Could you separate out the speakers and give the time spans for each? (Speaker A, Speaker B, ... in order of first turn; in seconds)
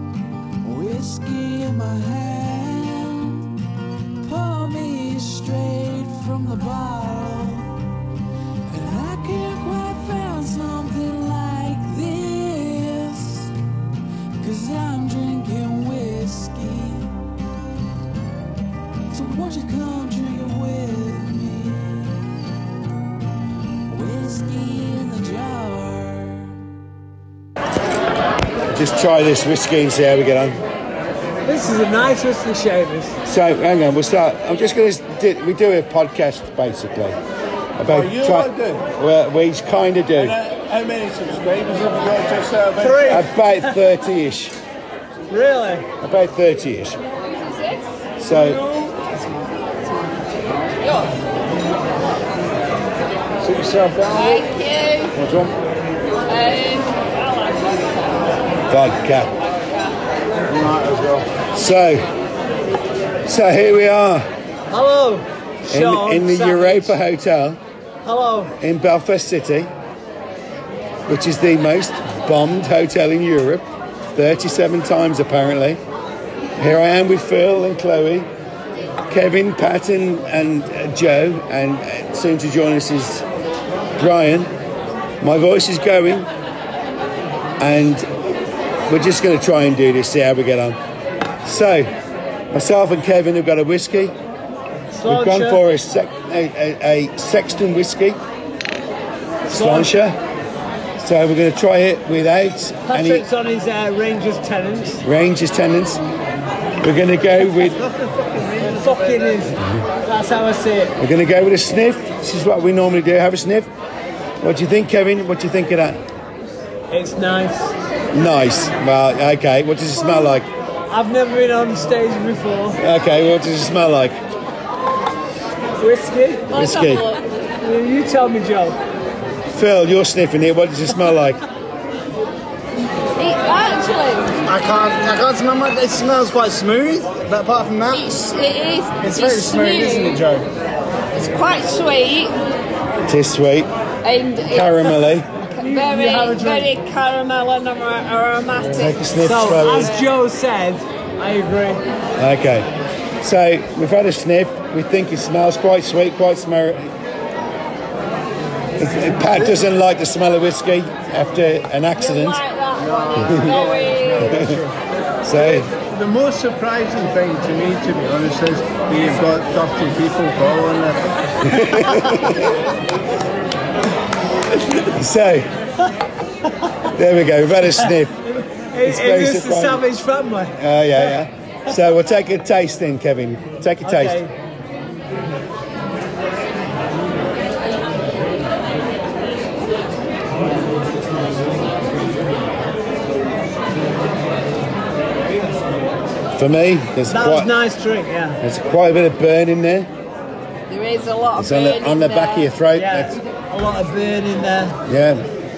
Speaker A: 0.6-3.6, 4.2-7.8, 8.7-13.6, 14.4-17.2, 19.1-22.4, 23.9-26.6
Speaker B: 28.7-30.6, 33.2-37.2, 37.8-40.4, 43.0-44.6, 46.0-47.0, 48.2-48.6, 55.2-55.5, 58.7-59.3, 61.5-62.1, 63.3-64.3, 65.7-67.6, 68.6-69.7, 71.1-75.8, 76.6-78.3, 79.1-83.2, 84.0-84.5, 85.2-86.3, 87.6-88.1, 88.9-90.8, 91.4-91.9, 92.5-94.2, 95.1-98.2, 99.5-100.2, 101.0-103.3, 105.0-106.0, 106.8-107.8, 111.0-113.7, 114.4-116.0, 118.1-120.5, 122.8-124.2, 126.5-127.1, 129.5-131.4, 143.1-143.7, 144.5-145.3, 148.7-150.0, 152.2-152.7, 153.2-156.9, 158.8-162.4, 163.2-163.6, 164.2-164.5, 165.2-165.7, 171.4-172.6, 174.6-175.5, 176.9-178.2, 178.8-179.8, 180.6-184.2, 196.4-197.5, 198.4-199.9, 201.4-203.2, 204.9-205.2
Speaker C: 31.5-33.1, 42.8-43.3, 45.3-45.9, 64.7-67.0, 68.0-68.5, 94.9-95.6, 99.5-99.9, 102.9-105.0, 107.7-111.0, 116.9-117.7, 120.9-122.8, 125.8-126.5, 127.6-128.8, 145.6-146.7, 149.2-151.8, 178.3-180.6, 183.8-184.3, 197.1-198.4, 202.7-204.8
Speaker D: 37.9-38.9, 40.3-43.1, 53.4-54.5, 60.5-61.2, 165.5-171.0
Speaker E: 47.3-47.9, 50.8-51.1, 54.1-55.2, 56.3-58.0, 126.5-127.2, 133.2-134.4, 137.9-140.2, 141.2-142.4, 144.0-144.9, 145.6-149.2, 149.7-150.0, 162.0-164.3, 200.7-202.5
Speaker F: 134.4-138.1, 139.0-140.5, 163.0-164.8, 167.4-170.7